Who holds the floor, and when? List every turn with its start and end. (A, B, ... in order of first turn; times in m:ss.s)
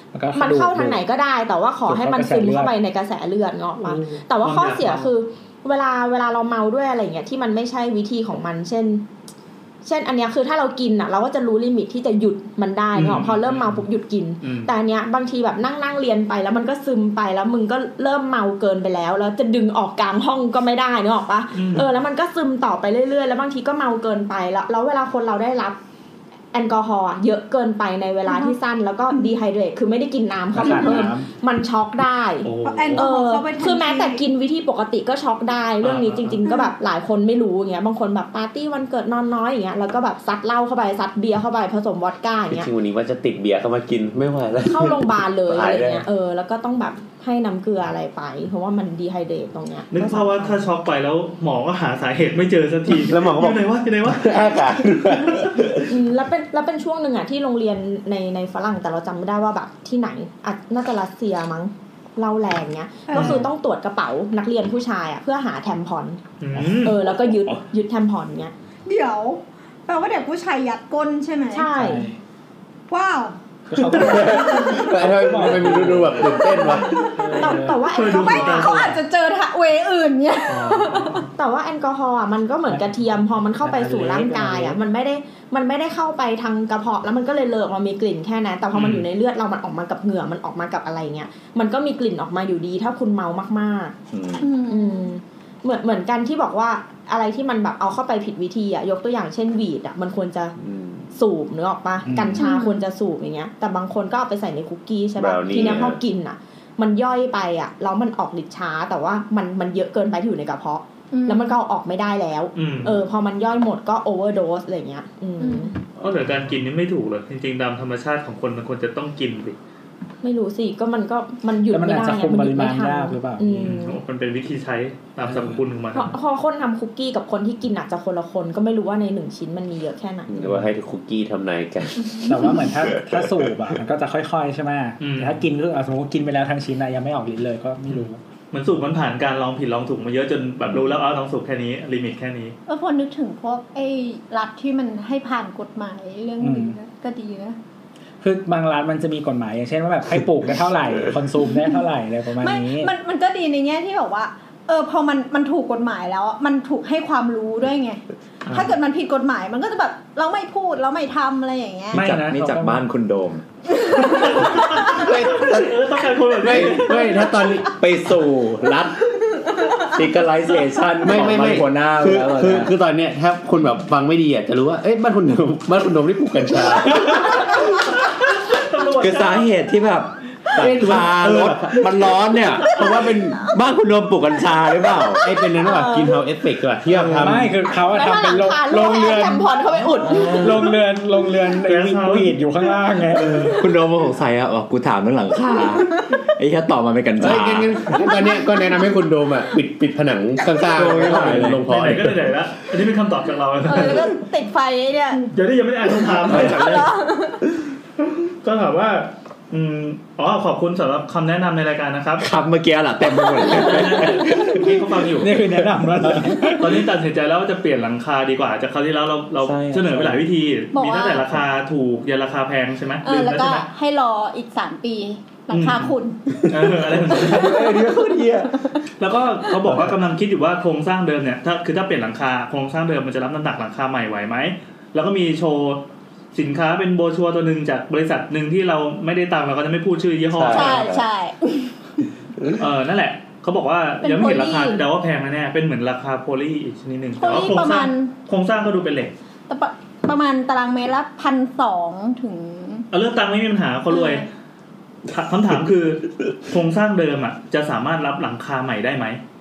0:00.1-0:01.0 A
0:00.3-0:09.1 B
0:01.9-0:02.7 A
0:04.4-0:05.1 C
0:09.8-0:25.8 B
0:13.0-0:13.8 C
0:14.4-0:14.7 C
0:21.6-0:21.9 C
0:26.5-0:42.7 B
0:28.3-0:28.6 D
0:29.1-0:29.4 D
0:30.5-0:31.3 A
0:30.6-0:31.1 D
0:32.4-0:33.1 C
0:32.6-0:34.2 D
0:35.8-0:36.4 C
0:36.5-0:36.7 D
0:42.5-0:46.0 E
0:44.6-0:50.6 B
0:49.9-0:54.6 C
0:52.9-0:55.9 E
0:55.9-1:06.2 B
1:03.1-1:03.5 D
1:03.1-1:03.4 C
1:06.4-1:07.0 C
1:06.8-1:08.5 B
1:08.9-1:11.7 D
1:11.5-1:12.1 B
1:11.8-1:12.2 A
1:12.9-1:13.4 D
1:13.7-1:17.8 A
1:13.8-1:14.3 C
1:13.8-1:17.0 E
1:14.3-1:14.8 D
1:16.4-1:21.3 D
1:17.4-1:18.8 B
1:17.9-1:19.0 C
1:20.5-1:21.3 C
1:21.4-1:34.0 B
1:22.7-1:24.8 A
1:28.7-1:29.1 C
1:34.1-1:34.5 F
1:34.4-1:35.1 D
1:34.7-1:40.6 B
1:40.6-1:41.1 E
1:41.1-1:55.8 B
1:42.1-1:42.4 A
1:42.4-1:42.8 D
1:45.2-1:46.0 E
1:51.1-1:51.6 D
1:52.6-1:53.0 C
1:55.4-1:55.7 D
1:56.0-1:59.6 C
2:00.2-2:04.0 B
2:01.7-2:03.6 A
2:03.5-2:06.1 C
2:05.9-2:10.3 B
2:10.3-2:13.3 E
2:12.2-2:18.2 A
2:15.0-2:15.4 C
2:17.9-2:22.6 C
2:22.7-2:27.6 D
2:26.4-2:26.8 A
2:28.2-2:32.9 A
2:32.4-2:42.1 D
2:38.5-2:38.7 C
2:41.9-2:43.4 F
2:41.9-2:42.8 A
2:43.8-2:45.0 D
2:44.0-2:47.4 C
2:44.4-2:47.8 E
2:47.7-2:49.0 F
2:49.9-2:52.7 F
2:51.0-2:57.7 E
2:58.0-2:59.5 C
2:59.0-3:05.3 F
3:00.6-3:03.5 E
3:05.2-3:07.5 E
3:05.6-3:06.2 B
3:06.9-3:07.4 C
3:07.1-3:09.5 A
3:07.8-3:10.5 B
3:10.1-3:10.5 E
3:10.1-3:13.5 A
3:11.6-3:12.4 C
3:13.1-3:13.5 C
3:13.4-3:17.8 F
3:17.2-3:22.3 E
3:18.1-3:18.8 D
3:20.7-3:21.7 F
3:21.4-3:24.2 C
3:23.6-3:25.3 D
3:25.3-3:26.9 C
3:26.0-3:27.4 D
3:26.3-3:26.8 F
3:28.4-3:32.3 C
3:32.2-3:34.6 F
3:33.4-3:35.4 C
3:35.2-3:36.8 A
3:36.5-3:43.7 C
3:39.4-3:40.3 F
3:40.7-3:41.3 D
3:43.0-3:46.5 D
3:45.5-3:46.0 C
3:46.5-3:47.7 C
3:46.5-3:48.5 E
3:47.5-3:48.1 D
3:49.0-4:00.8 C
4:00.4-4:01.0 E
4:00.5-4:01.7 D
4:00.5-4:00.9 F
4:02.4-4:02.6 E
4:02.6-4:09.1 C
4:04.0-4:04.8 D
4:07.2-4:08.1 D
4:09.5-4:12.9 D
4:12.9-4:14.3 C
4:13.9-4:14.3 D
4:15.1-4:19.2 C